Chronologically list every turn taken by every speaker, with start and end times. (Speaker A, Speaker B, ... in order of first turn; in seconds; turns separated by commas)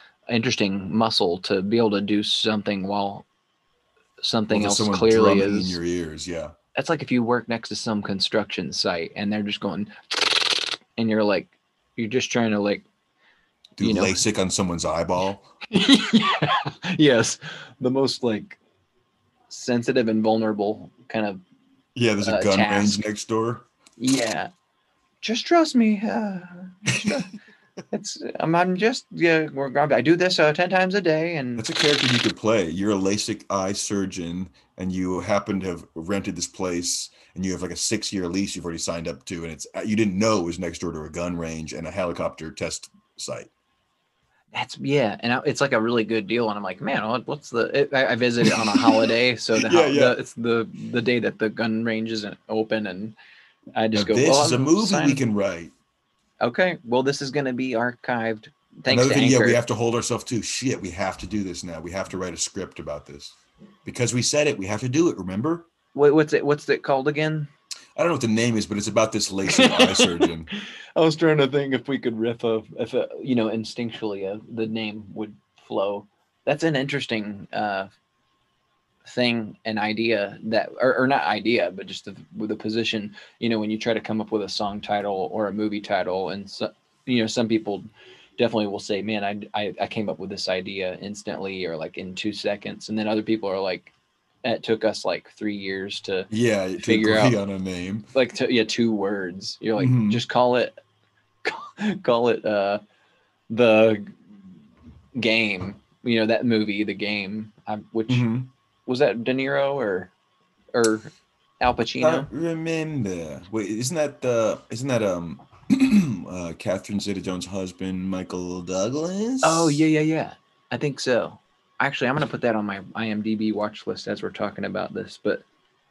Speaker A: 0.3-3.2, Speaker A: 4.2-5.8, Speaker B: 4.5-6.5, Speaker A: 6.7-12.8, Speaker B: 13.8-15.5, Speaker A: 13.8-14.2, Speaker A: 15.7-18.6, Speaker A: 19.5-21.4, Speaker B: 21.9-23.6, Speaker A: 22.2-23.0, Speaker A: 24.0-24.5, Speaker A: 25.2-27.3, Speaker A: 27.9-31.6, Speaker B: 31.6-43.5, Speaker A: 44.5-53.1, Speaker B: 49.5-50.1, Speaker A: 53.8-55.2, Speaker B: 53.9-55.7, Speaker A: 56.4-59.6, Speaker B: 58.9-65.7, Speaker A: 65.9-67.5, Speaker B: 68.0-70.5, Speaker A: 69.5-70.0, Speaker A: 71.0-77.9, Speaker A: 79.0-87.9, Speaker A: 88.4-93.9, Speaker A: 94.4-96.3, Speaker B: 96.3-98.1, Speaker A: 96.8-97.4, Speaker A: 98.1-100.7, Speaker B: 99.8-100.2, Speaker A: 101.4-102.8, Speaker A: 103.5-104.2, Speaker A: 105.2-108.3, Speaker B: 108.1-108.5, Speaker A: 108.8-110.1, Speaker A: 110.7-112.3, Speaker B: 112.0-119.8, Speaker A: 119.4-125.4